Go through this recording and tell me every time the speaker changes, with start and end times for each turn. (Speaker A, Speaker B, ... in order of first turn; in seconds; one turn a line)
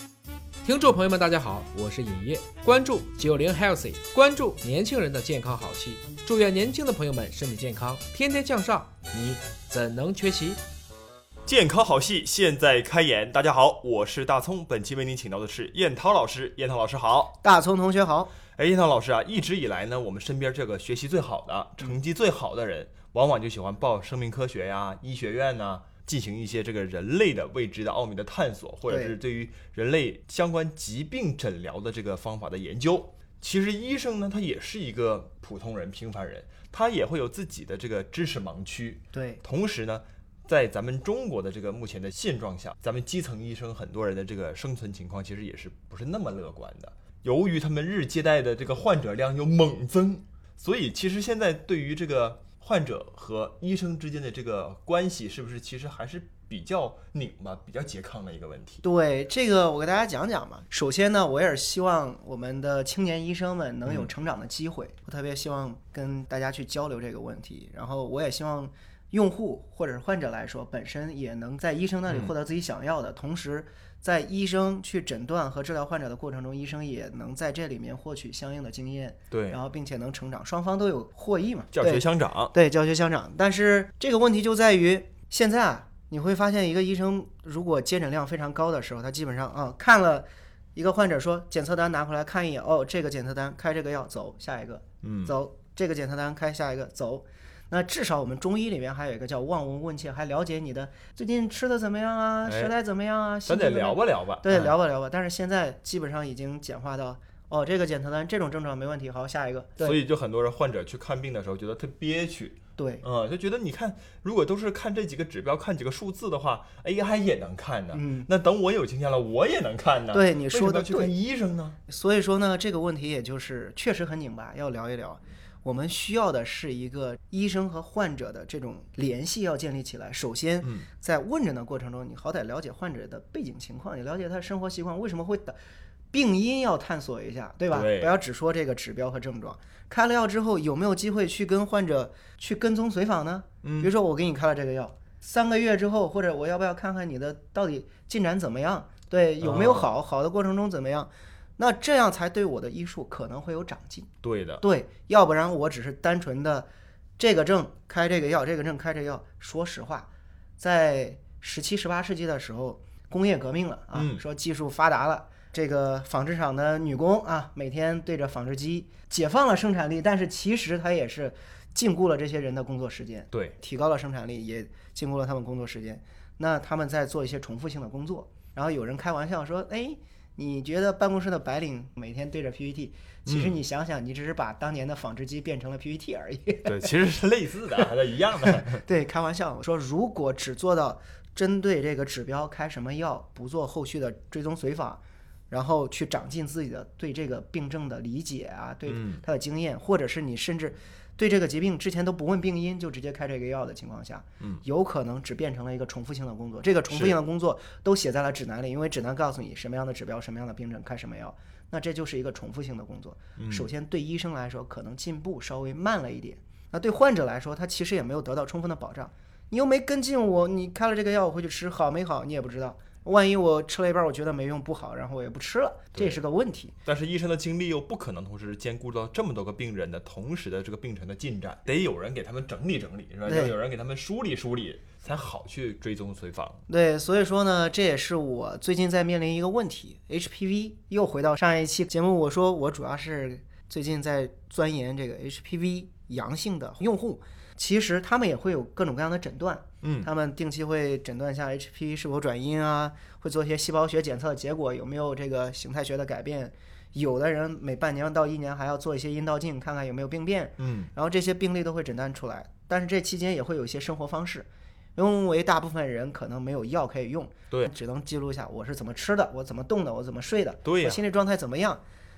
Speaker A: 0.6-10.6
Speaker B: 11.4-17.4
Speaker C: 17.4-18.3
Speaker B: 18.6-58.8
Speaker C: 28.9-29.1
Speaker C: 39.1-39.4
Speaker C: 58.8-110.0
Speaker B: 63.9-64.1
Speaker B: 72.1-72.3
Speaker B: 79.3-79.6
Speaker B: 81.7-82.5
Speaker B: 95.0-95.4
Speaker B: 102.4-102.7
Speaker B: 103.5-104.8
Speaker B: 109.8-121.8
Speaker C: 112.8-113.0
Speaker C: 117.9-118.3
Speaker C: 120.1-121.1
Speaker C: 121.9-135.6
Speaker B: 130.6-130.9
Speaker C: 136.1-154.1
Speaker B: 137.7-138.1
Speaker B: 143.6-143.9
Speaker B: 149.4-149.9
Speaker B: 154.2-154.6
Speaker C: 154.6-160.1
Speaker C: 160.6-186.9
Speaker B: 163.9-164.2
Speaker B: 173.3-173.6
Speaker B: 183.2-183.6
Speaker B: 186.6-188.8
Speaker C: 188.4-226.7
Speaker B: 198.9-199.2
Speaker B: 206.9-207.2
Speaker B: 213.4-213.7
Speaker B: 225.9-226.2
Speaker B: 226.8-236.6
Speaker C: 233.2-233.5
Speaker C: 236.7-271.8
Speaker B: 249.8-250.1
Speaker B: 260.6-260.9
Speaker B: 270.6-271.0